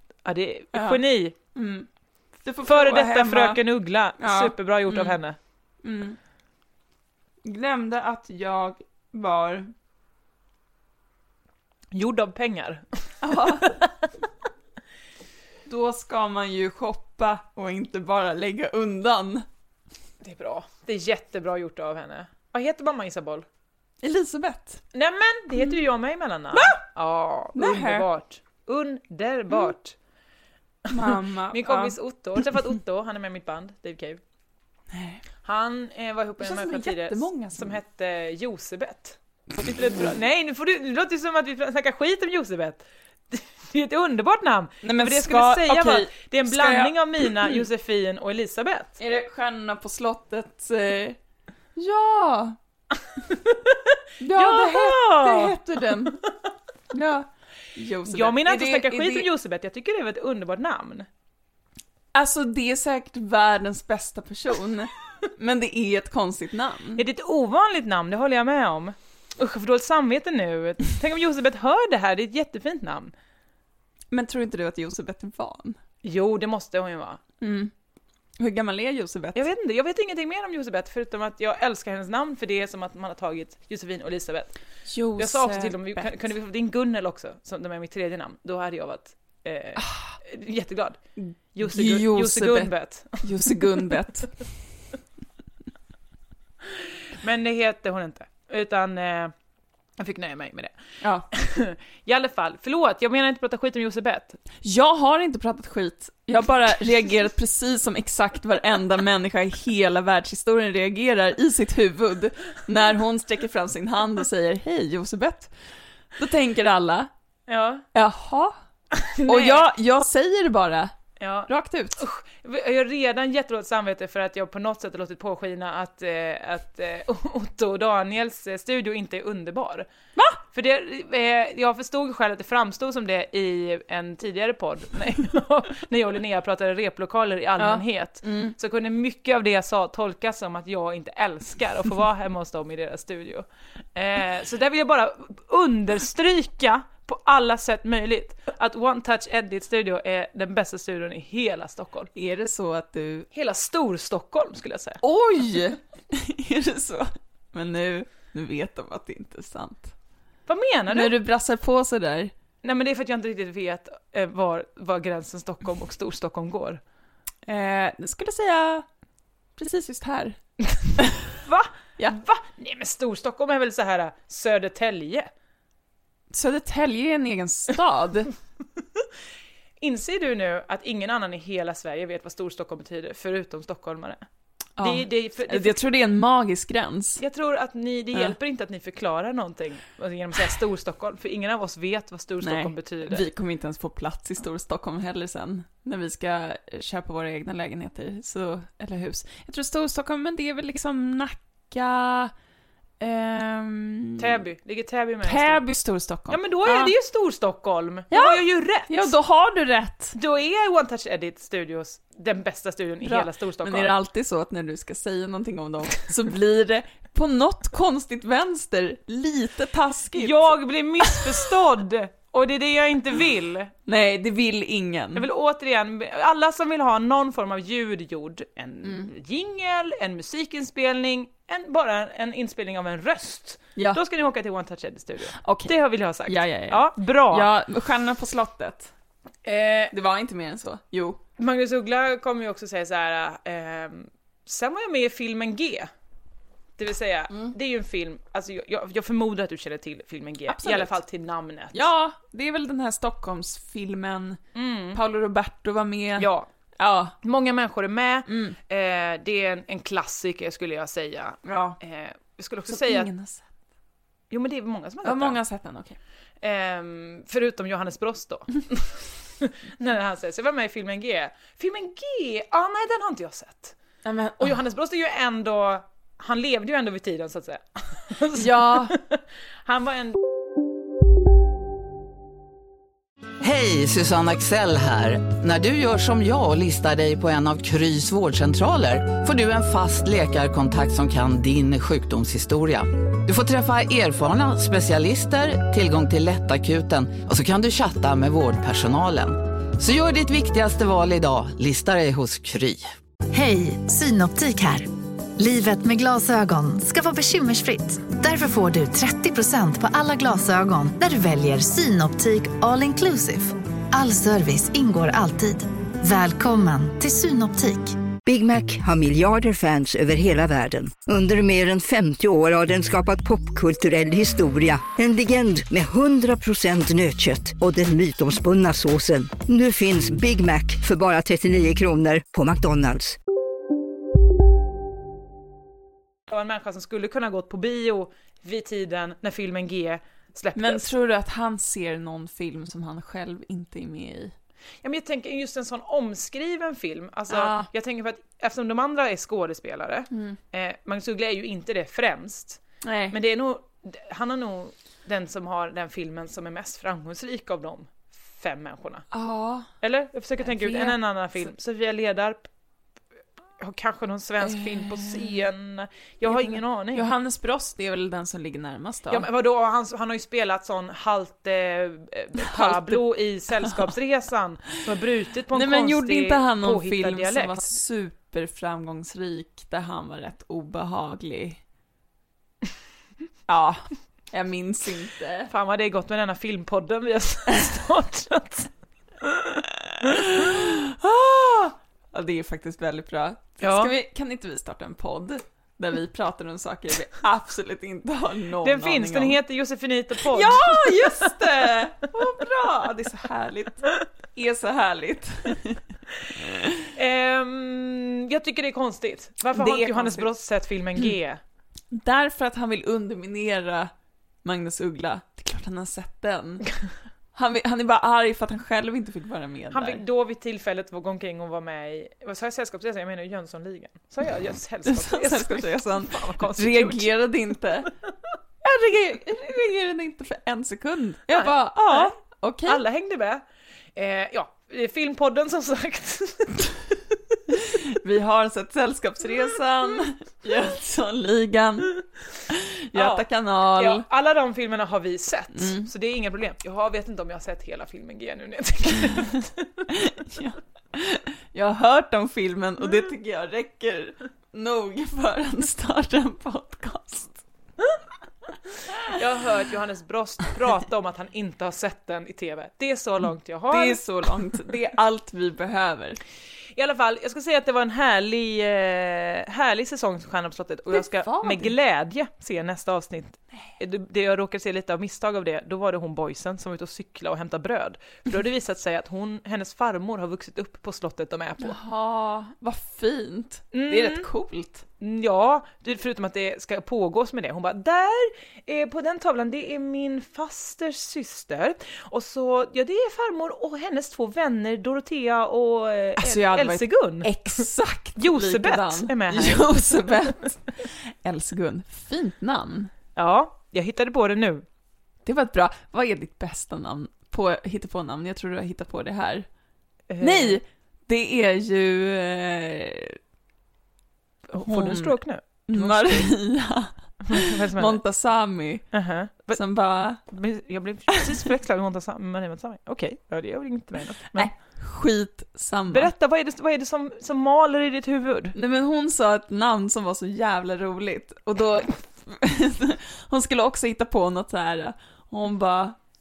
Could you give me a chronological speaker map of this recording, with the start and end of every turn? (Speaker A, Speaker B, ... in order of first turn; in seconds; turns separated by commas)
Speaker A: 0.2-1.4, Speaker B: 0.7-1.0, Speaker B: 1.5-1.9, Speaker B: 2.4-3.6, Speaker A: 2.6-5.4, Speaker B: 4.2-5.2, Speaker B: 5.8-6.2, Speaker B: 7.4-9.7, Speaker A: 11.9-13.8, Speaker B: 13.2-13.8, Speaker B: 15.7-19.5, Speaker A: 20.2-23.5, Speaker B: 24.0-24.8, Speaker A: 24.9-30.0, Speaker B: 26.5-26.8, Speaker B: 27.5-28.1, Speaker B: 30.9-32.6, Speaker A: 31.0-34.2, Speaker B: 34.9-35.2, Speaker A: 35.4-49.0, Speaker B: 36.4-37.8, Speaker B: 44.8-47.6, Speaker B: 49.0-51.2, Speaker B: 51.8-52.6, Speaker B: 54.2-56.2, Speaker A: 54.3-55.6, Speaker B: 56.9-59.3, Speaker A: 58.1-61.1, Speaker B: 62.1-67.0, Speaker A: 67.0-73.1, Speaker B: 74.1-75.8, Speaker A: 76.0-77.2, Speaker B: 77.4-77.7, Speaker B: 78.4-79.5, Speaker A: 79.3-84.5, Speaker B: 84.9-86.2, Speaker A: 85.2-91.0, Speaker B: 89.8-90.2, Speaker B: 91.2-94.5, Speaker A: 91.5-93.9, Speaker A: 97.2-99.3, Speaker A: 100.0-100.8, Speaker B: 101.0-101.3, Speaker A: 101.3-104.4, Speaker B: 104.6-115.5, Speaker B: 116.2-117.1, Speaker A: 117.5-117.8, Speaker B: 117.9-118.6, Speaker A: 119.0-119.7, Speaker B: 119.2-120.9, Speaker A: 121.2-129.9, Speaker B: 121.5-122.0, Speaker A: 130.5-152.1, Speaker B: 137.6-138.6, Speaker B: 152.2-153.3, Speaker A: 153.3-155.0, Speaker B: 155.0-159.9, Speaker A: 160.5-161.2, Speaker B: 160.9-162.3, Speaker A: 162.6-166.8, Speaker B: 167.4-168.9, Speaker B: 169.6-170.4, Speaker B: 171.0-171.3, Speaker A: 171.4-175.3, Speaker B: 176.3-178.3, Speaker A: 179.8-184.2, Speaker B: 184.8-187.2, Speaker A: 184.8-185.8, Speaker A: 187.2-193.3, Speaker B: 192.4-202.3, Speaker B: 203.0-204.4, Speaker A: 204.2-205.6, Speaker B: 205.2-206.9, Speaker A: 206.3-209.1, Speaker B: 208.1-210.2, Speaker A: 210.2-214.0, Speaker B: 213.0-221.4, Speaker A: 220.1-223.7, Speaker B: 223.9-225.3, Speaker A: 225.2-237.5, Speaker B: 228.8-229.1, Speaker B: 233.8-234.0, Speaker B: 235.3-238.9, Speaker A: 239.4-239.9, Speaker B: 239.9-241.2, Speaker A: 241.4-245.9, Speaker A: 246.8-251.8, Speaker B: 250.5-251.0, Speaker B: 251.7-254.4, Speaker A: 254.6-255.0, Speaker B: 254.9-257.2, Speaker A: 256.2-256.5, Speaker A: 257.2-263.1, Speaker B: 258.3-258.6, Speaker B: 261.4-261.8, Speaker B: 262.7-263.4, Speaker A: 264.3-265.4, Speaker B: 265.0-266.0, Speaker A: 266.4-273.8, Speaker B: 274.0-274.6, Speaker A: 274.4-280.2, Speaker B: 278.4-279.0, Speaker C: 283.4-302.9, Speaker D: 303.3-318.0, Speaker E: 318.2-333.2, Speaker A: 336.3-340.9, Speaker B: 340.6-344.3, Speaker A: 344.8-352.6, Speaker B: 347.3-347.7, Speaker B: 350.1-350.4, Speaker B: 352.8-353.2, Speaker A: 353.1-359.1, Speaker B: 359.1-359.7, Speaker A: 359.8-362.5, Speaker B: 360.4-361.0, Speaker A: 363.6-367.1, Speaker B: 364.4-365.4, Speaker B: 366.2-369.3, Speaker A: 369.1-377.6, Speaker B: 372.4-373.9, Speaker B: 375.5-381.6, Speaker B: 383.5-385.5, Speaker A: 385.5-388.7, Speaker A: 389.2-389.5, Speaker B: 390.0-399.4, Speaker A: 393.6-393.9, Speaker A: 398.6-401.3, Speaker B: 400.2-405.8, Speaker B: 406.4-406.8, Speaker A: 406.9-411.4, Speaker B: 409.5-410.3, Speaker B: 411.9-413.9, Speaker B: 414.4-416.7, Speaker B: 417.3-420.0, Speaker A: 419.7-427.1, Speaker B: 424.9-427.9, Speaker B: 428.6-432.8, Speaker A: 431.3-433.4, Speaker A: 433.9-436.7, Speaker B: 437.5-444.1, Speaker A: 442.9-449.6, Speaker B: 445.5-445.9, Speaker B: 449.9-457.4, Speaker A: 459.1-464.0, Speaker B: 463.7-466.2, Speaker A: 466.8-481.8, Speaker B: 470.9-471.7, Speaker B: 481.6-484.9, Speaker A: 483.7-484.3, Speaker A: 485.0-500.1, Speaker B: 496.2-502.9, Speaker A: 503.2-504.6, Speaker B: 505.2-509.5, Speaker A: 510.1-510.6, Speaker B: 510.2-513.2, Speaker A: 514.5-516.4, Speaker B: 514.6-518.9, Speaker A: 517.3-518.0, Speaker A: 518.9-519.6, Speaker B: 519.5-520.2, Speaker A: 520.2-524.5, Speaker B: 521.1-521.4, Speaker B: 524.3-526.1, Speaker A: 525.9-528.5, Speaker B: 528.5-536.0